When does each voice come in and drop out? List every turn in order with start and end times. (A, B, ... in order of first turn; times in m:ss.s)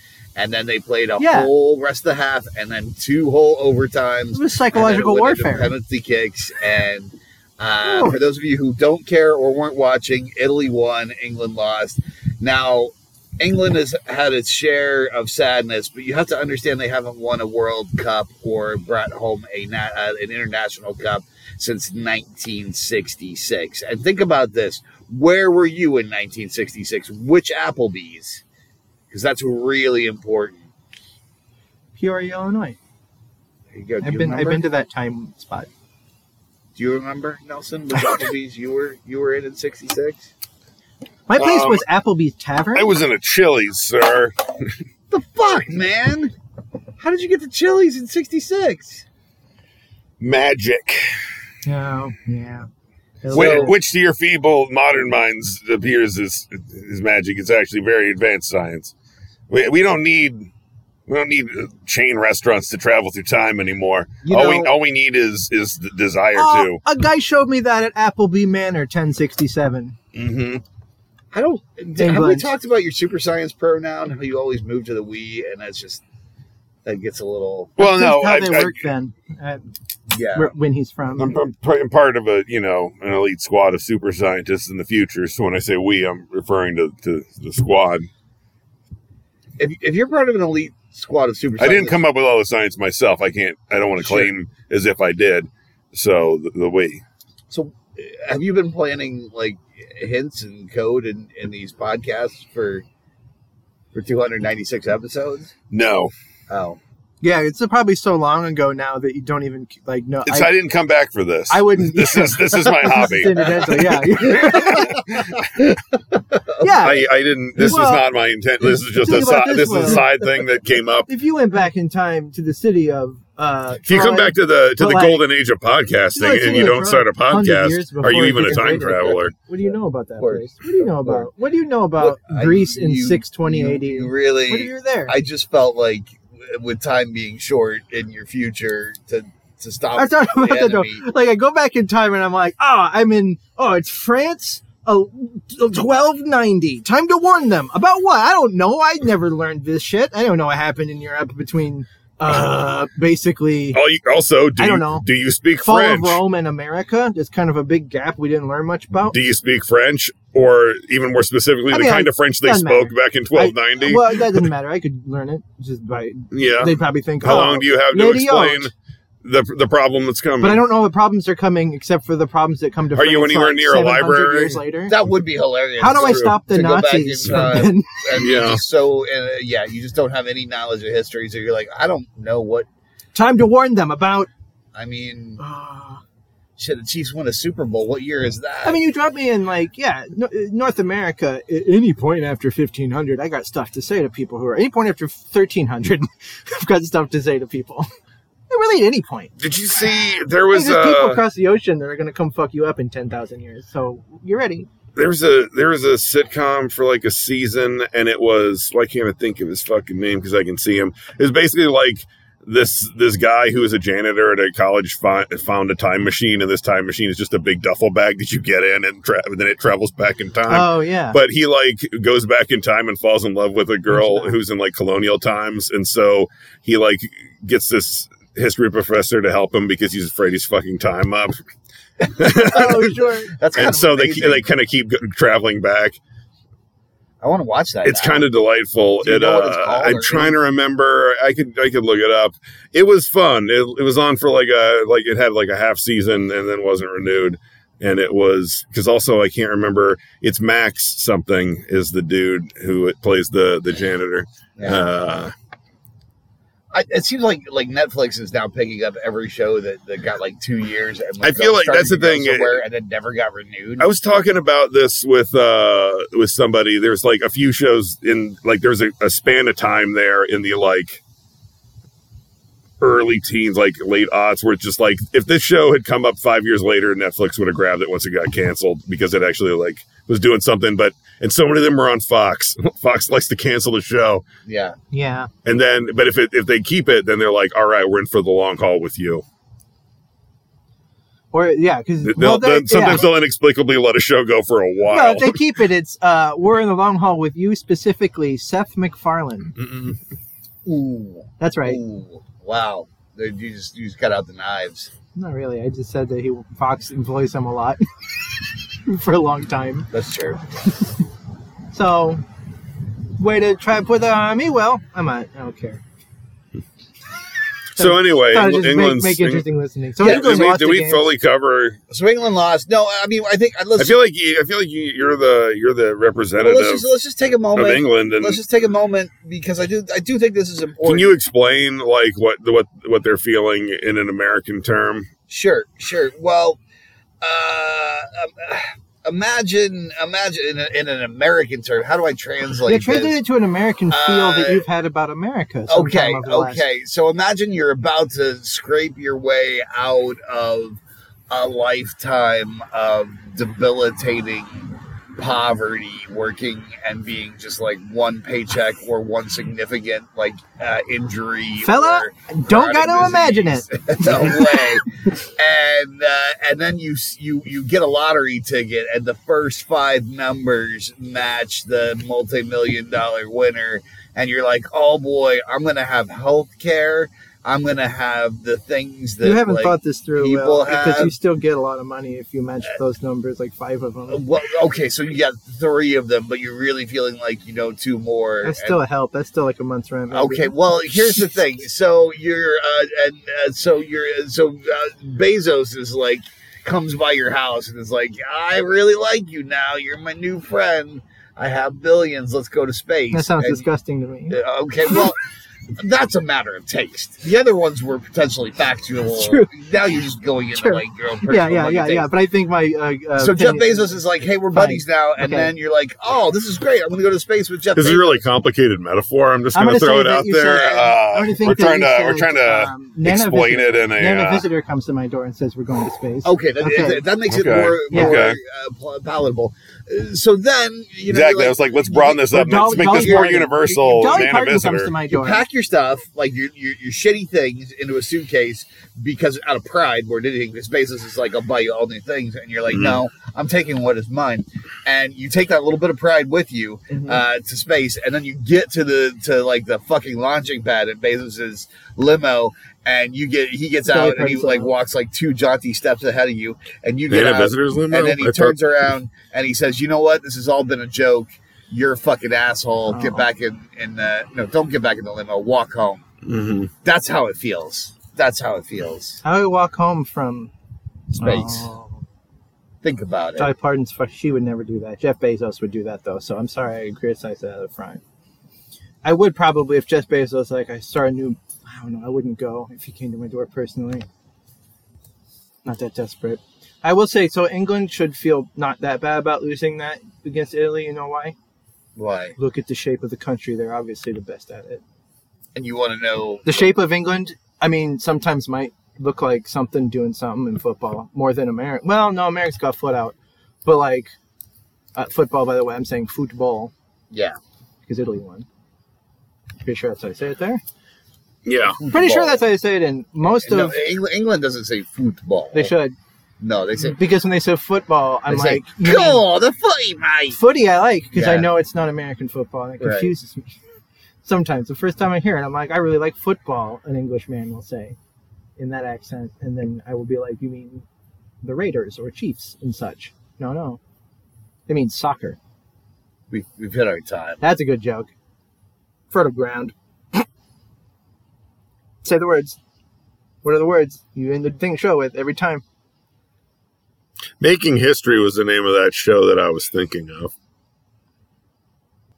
0:00.4-0:28.4 A
0:01.2-0:01.5 B
0:04.3-0:05.7 B
0:07.8-0:08.2 B
0:29.1-0:30.7 A
0:32.0-0:32.8 B
0:33.7-0:34.6 A
0:34.0-0:35.7 B
0:36.8-0:40.3 A
0:38.0-0:38.2 B
0:41.3-0:42.9 B
0:41.4-0:41.8 C
0:42.7-0:44.7 C
0:45.1-0:46.3 A
0:47.0-0:49.0 A
0:50.2-0:51.2 C
0:51.6-0:52.7 B
0:53.2-0:53.7 B
0:53.3-0:53.7 A
0:53.3-0:58.9 C
0:59.5-1:00.5 C
1:01.1-1:06.8 C
1:04.2-1:04.7 A
1:06.4-1:10.0 B
1:10.1-1:10.6 C
1:11.3-1:16.0 A
1:12.0-1:12.5 B
1:16.8-1:17.8 A
1:17.8-1:18.8 C
1:17.8-1:19.6 B
1:20.1-1:20.5 A
1:20.3-1:21.3 B
1:21.2-1:28.1 C
1:29.6-1:32.0 A
1:31.6-1:37.0 C
1:34.0-1:34.3 A
1:37.5-1:42.8 A
1:43.9-1:45.5 A
1:45.7-1:46.1 C
1:46.5-1:46.8 A
1:47.2-1:50.6 B
1:50.3-1:53.8 C
1:51.5-1:55.0 B
1:54.3-1:55.8 A
1:56.6-1:57.0 B
1:56.7-2:01.1 C
1:57.6-1:58.1 B
1:58.6-2:00.5 B
2:01.1-2:05.2 B
2:03.9-2:09.3 C
2:06.1-2:15.2 B
2:10.2-2:11.3 A
2:12.0-2:21.0 A
2:20.0-2:33.8 B
2:33.7-2:36.2 C
2:34.6-2:35.0 B
2:35.6-2:39.2 B
2:39.1-2:44.5 C
2:41.7-2:48.7 B
2:46.3-2:48.7 C
2:49.2-2:50.6 C
2:50.4-2:54.9 B
2:53.0-2:54.6 C
2:54.9-3:02.7 A
2:55.8-2:58.0 B
2:56.0-2:56.3 C
2:58.2-2:58.6 C
3:03.2-3:04.3 B
3:04.8-3:05.4 A
3:05.4-3:06.0 B
3:06.6-3:08.8 A
3:08.6-3:17.9 B
3:18.5-3:19.3 B
3:19.4-3:21.2 C
3:20.5-3:24.7 B
3:25.0-3:51.4 C
3:40.5-3:41.2 B
3:43.9-3:44.4 B
3:52.2-3:52.8 C
3:52.4-3:53.4 B
3:53.4-3:54.5 A
3:53.6-3:56.0 C
3:57.2-3:58.3 A
3:57.8-4:15.3 C
3:59.0-4:00.4 A
4:14.6-4:14.8 A
4:16.7-4:23.9 A
4:21.2-4:22.6 C
4:23.8-4:31.0 C
4:32.8-4:44.2 C
4:44.5-4:44.8 A
4:44.9-4:45.3 B
4:45.4-4:49.2 C
4:51.3-4:53.0 B
4:52.0-4:55.4 C
4:54.9-4:59.5 B
4:59.6-5:00.0 C
5:00.7-5:04.9 A
5:01.4-5:01.8 B
5:05.2-5:07.8 B
5:08.8-5:09.9 B
5:09.9-5:10.4 A
5:11.7-5:12.2 B
5:13.2-5:15.8 B
5:17.8-5:19.4 C
5:17.8-5:21.1 B
5:20.0-5:20.6 A
5:20.0-5:21.8 C
5:21.9-5:24.0 A
5:23.8-5:26.9 C
5:26.4-5:31.1 A
5:27.6-5:28.4 C
5:30.8-5:35.1 C
5:35.3-5:36.6 A
5:37.2-5:43.2 A
5:42.7-5:46.6 B
5:43.9-5:44.6 A
5:45.7-6:21.1 A
6:01.6-6:04.6 B
6:19.2-6:24.2 B
6:24.1-6:28.8 A
6:28.4-6:30.5 B
6:30.1-6:43.7 A
6:43.1-6:44.4 B
6:44.3-6:45.2 A
6:45.8-6:52.1 A
6:49.2-6:49.5 B
6:50.6-6:54.0 B
6:53.2-6:58.2 A
6:54.5-6:55.5 B
6:57.8-7:04.5 C
6:59.5-7:07.0 B
7:06.2-7:13.4 A
7:07.3-7:08.4 C
7:07.9-7:08.2 B
7:11.1-7:15.0 C
7:12.3-7:15.4 B
7:15.1-7:46.0 A
7:22.7-7:23.0 C
7:26.9-7:27.2 B
7:33.9-7:34.7 B
7:37.1-7:38.6 C
7:42.9-7:43.2 B
7:46.2-7:46.7 C
7:46.8-7:49.2 A
7:49.2-7:50.5 B
7:51.2-7:51.9 B
7:51.2-7:51.7 A
7:52.8-7:53.5 A
7:53.4-7:58.0 B
7:59.0-8:04.1 B
8:05.6-8:11.4 B
8:12.0-8:12.4 A
8:12.4-8:14.8 B
8:15.6-8:16.7 A
8:16.5-8:24.1 B
8:25.0-8:26.7 B
8:27.1-8:27.4 A
8:27.8-8:28.5 B
8:29.6-8:30.6 B
8:31.4-8:31.8 C
8:31.7-8:32.4 A
8:31.9-8:33.8 B
8:33.3-8:35.7 A
8:35.5-8:36.0 B
8:36.4-8:37.0 A
8:36.8-8:39.2 B
8:38.3-8:40.4 A
8:40.3-8:43.6 B
8:41.1-8:41.5 A
8:42.8-8:43.1 A
8:44.2-8:48.0 B
8:48.6-8:50.8 B
8:51.4-8:53.8 B
8:54.7-8:55.4 B
8:56.3-8:57.4 A
8:57.4-8:58.1 B
8:59.1-9:00.3 B
9:02.0-9:02.6 B
9:03.4-9:05.6 B
9:07.4-9:10.3 C